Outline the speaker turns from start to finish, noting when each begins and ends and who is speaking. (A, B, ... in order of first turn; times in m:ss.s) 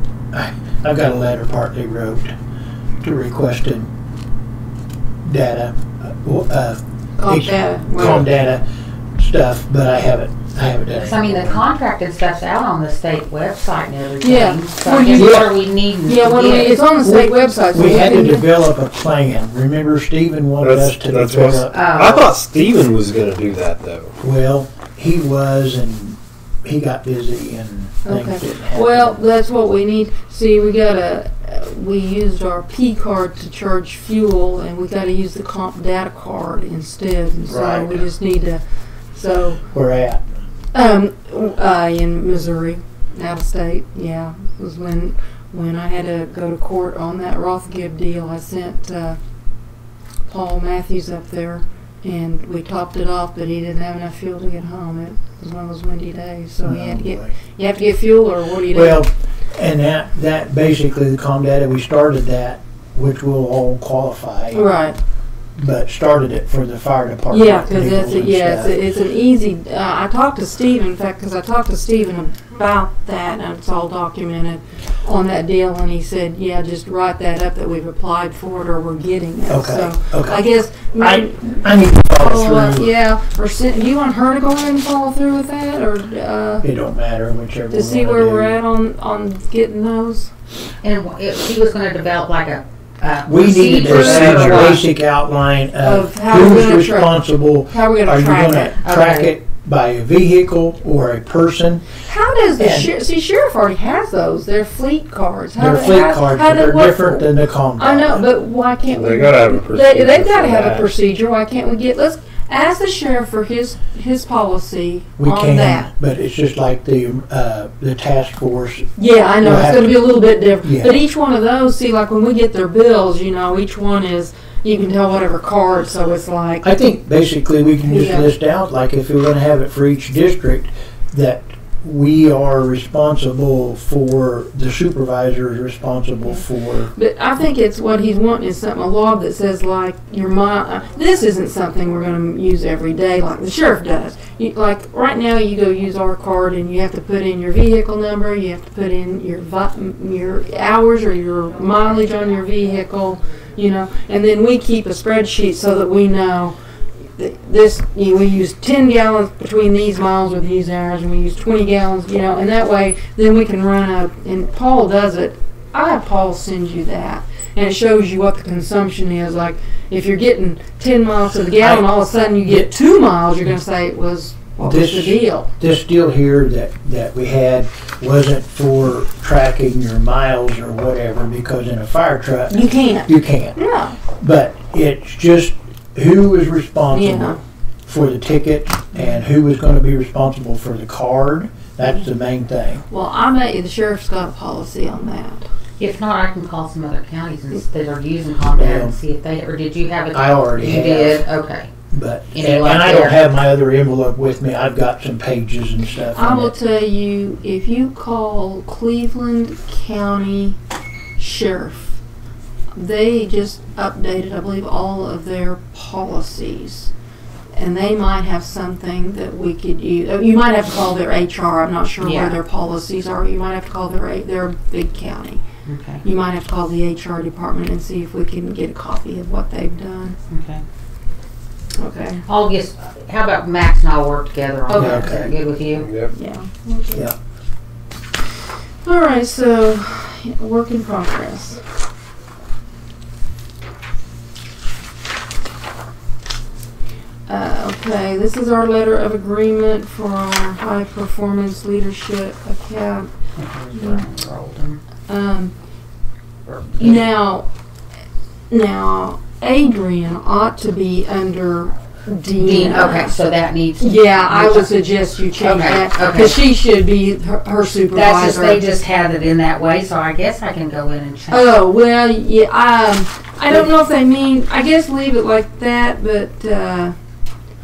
0:00.3-0:02.3 A
0:03.0-0:03.9 A
0:05.2-0:08.6 A
0:07.2-0:08.2 B
0:09.2-0:11.6 A
0:11.0-0:16.8 C
0:14.2-0:15.5 B
0:15.2-0:15.5 D
0:16.0-0:18.5 B
0:17.0-0:21.7 A
0:20.6-0:24.1 D
0:21.7-0:22.2 C
0:24.2-0:29.2 A
0:28.0-0:38.6 B
0:37.5-0:38.1 A
0:39.1-0:39.6 B
0:39.7-0:40.2 A
0:40.7-0:49.2 B
0:50.3-0:59.0 B
0:56.6-0:57.4 A
0:58.7-1:04.6 A
1:04.5-1:05.0 B
1:05.6-1:08.8 A
1:07.3-1:26.6 B
1:19.5-1:20.4 A
1:20.9-1:22.9 A
1:26.6-1:28.6 A
1:27.7-1:30.3 B
1:30.8-1:34.8 C
1:33.2-1:42.0 A
1:33.8-1:34.8 D
1:35.8-1:37.2 B
1:37.7-1:38.8 B
1:38.8-1:39.3 C
1:42.0-1:55.9 B
1:42.6-1:42.9 A
1:45.6-1:48.2 A
1:48.8-1:50.9 D
1:55.2-1:58.9 A
1:59.0-2:06.6 B
1:59.4-2:00.0 A
2:00.6-2:00.9 A
2:06.6-2:16.9 A
2:07.9-2:08.3 B
2:16.9-2:36.6 B
2:37.2-2:55.5 B
2:51.6-2:51.9 A
2:52.4-2:52.7 A
2:54.6-3:03.6 A
3:02.5-3:04.0 B
3:04.2-3:12.8 A
3:06.9-3:07.4 B
3:12.9-3:15.4 B
3:15.8-3:21.7 C
3:18.5-3:19.0 A
3:20.1-3:21.2 A
3:21.9-3:26.5 A
3:22.3-3:23.2 C
3:26.1-3:30.6 B
3:31.2-3:32.0 B
3:32.7-3:36.9 B
3:37.5-3:45.4 B
3:42.0-3:42.4 C
3:45.6-3:46.0 C
3:46.0-3:50.2 B
3:50.3-3:50.6 C
3:51.8-3:52.2 B
3:52.2-3:55.9 C
3:54.7-3:55.2 B
3:54.7-3:55.3 A
3:55.8-3:56.1 D
3:56.1-3:57.1 B
3:58.8-4:01.6 B
4:07.3-4:13.1 B
4:13.4-4:14.8 C
4:13.7-4:14.0 B
4:15.1-4:15.5 B
4:16.5-4:17.1 C
4:16.8-4:17.5 B
4:18.5-4:23.1 B
4:22.4-4:24.8 C
4:23.8-4:28.6 B
4:25.3-4:26.4 C
4:27.9-4:31.5 C
4:31.3-4:36.9 B